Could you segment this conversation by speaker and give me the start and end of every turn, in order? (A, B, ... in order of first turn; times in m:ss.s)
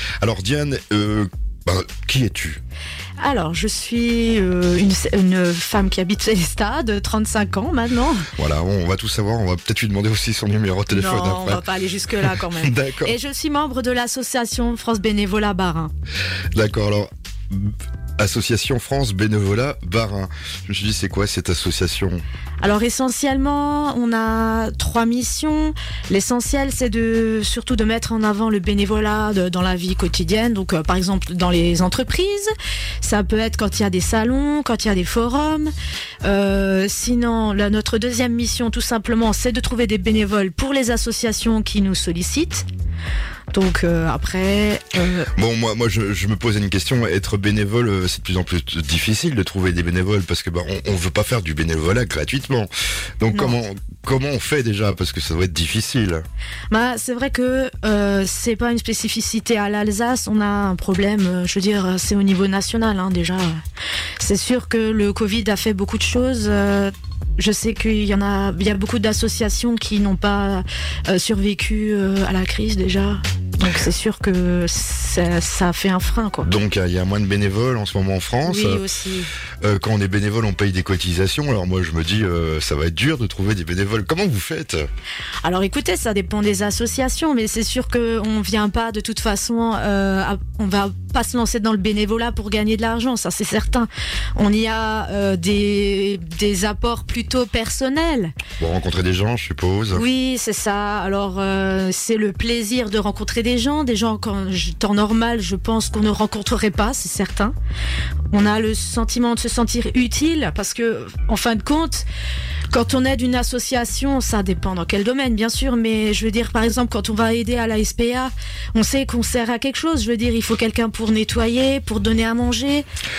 0:00.2-0:02.6 A
0:03.2-0:08.3 B
0:08.3-0:11.6 A
0:10.9-0:15.9 B
0:12.4-0:13.2 A
0:16.5-0:22.2 A
0:22.6-0:32.5 B
0:33.0-0:42.6 B
0:43.5-0:45.3 B
0:45.3-0:56.2 A
0:56.7-1:03.6 B
1:04.2-1:16.5 B
1:16.4-1:18.8 A
1:18.4-1:19.3 B
1:19.6-1:24.8 A
1:25.4-1:38.3 B
1:38.6-1:40.0 A
1:39.9-1:47.5 B
1:48.3-1:52.1 B
1:52.7-2:02.8 B